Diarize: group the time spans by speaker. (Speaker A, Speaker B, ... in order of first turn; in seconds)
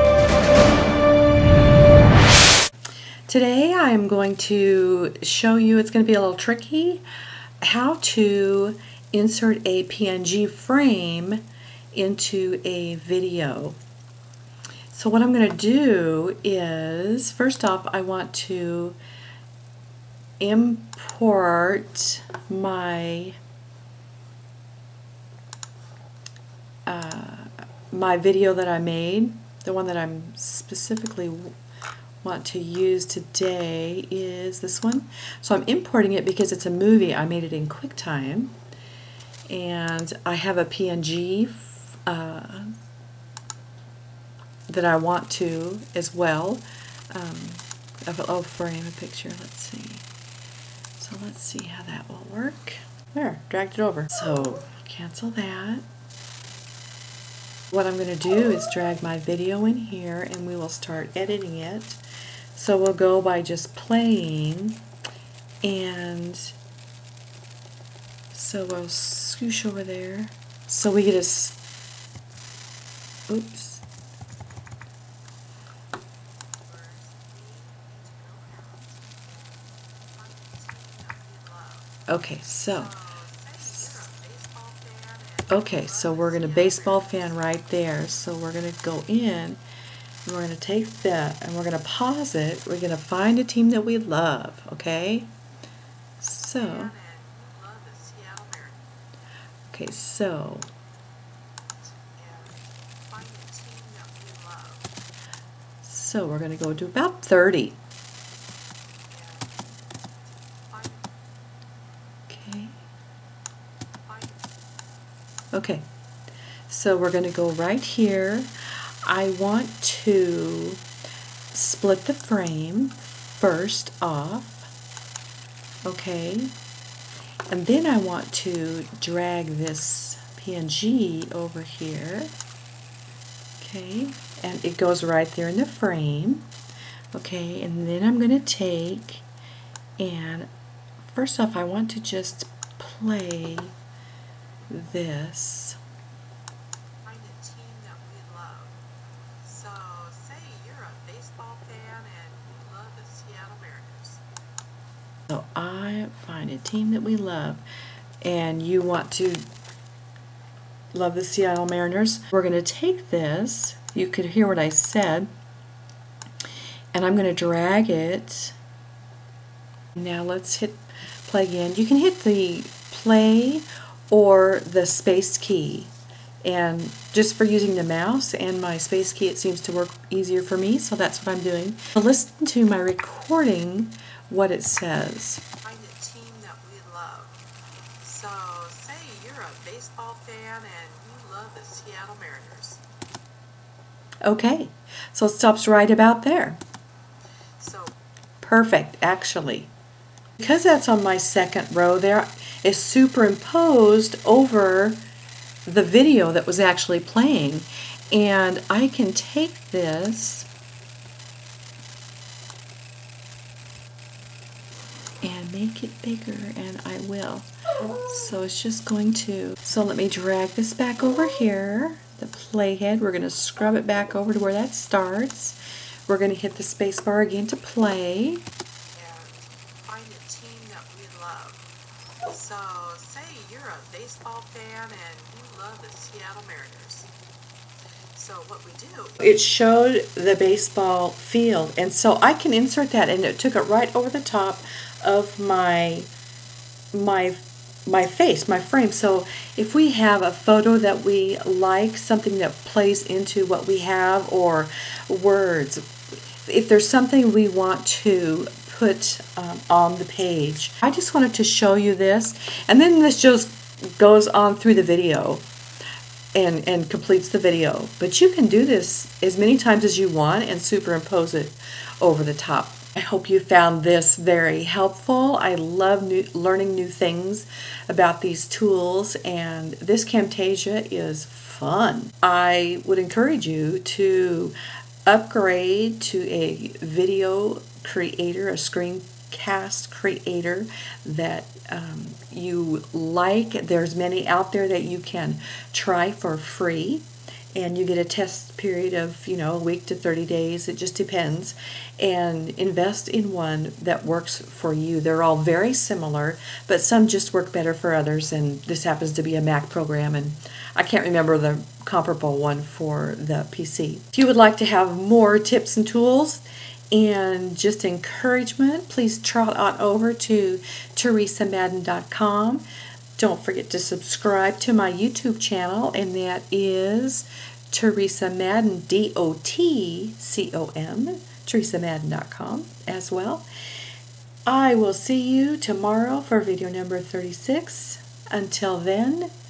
Speaker A: 3.3-7.0, 7.6-13.8, 14.9-19.0, 20.4-23.4, 26.9-31.5, 32.2-38.6, 39.5-42.7, 44.7-50.1, 51.0-55.9, 57.7-62.0, 62.5-64.8, 65.6-66.5, 68.3-71.6, 73.3-73.8, 82.1-82.9, 83.6-84.0, 85.5-89.6, 90.2-95.3, 96.2-96.9, 99.7-100.7, 105.8-107.8, 112.3-112.8, 115.5-115.8, 116.7-118.5, 119.0-120.8, 121.5-124.7, 125.9-126.5, 127.5-132.3, 133.6-136.5, 137.1-139.2, 140.0-140.5, 141.0-143.7, 144.7-145.8, 155.3-157.6, 158.2-159.5, 160.9-165.3, 166.9-168.5, 169.9-175.9, 176.4-185.4, 194.2-196.6, 198.4-199.7, 200.4-205.0, 205.7-210.5, 215.2-228.4, 239.2-246.1, 246.9-255.8, 256.4-265.4, 266.4-284.6, 285.1-322.6, 323.2-333.5, 334.5-339.3
Speaker B: 76.6-81.9, 82.7-87.4, 96.6-98.9, 101.8-105.0, 109.1-109.7, 110.6-111.1, 114.0-114.4, 147.0-148.8, 149.4-154.2, 185.6-187.4, 188.0-192.8, 197.6-197.9, 228.9-231.6, 232.2-237.1, 238.1-239.3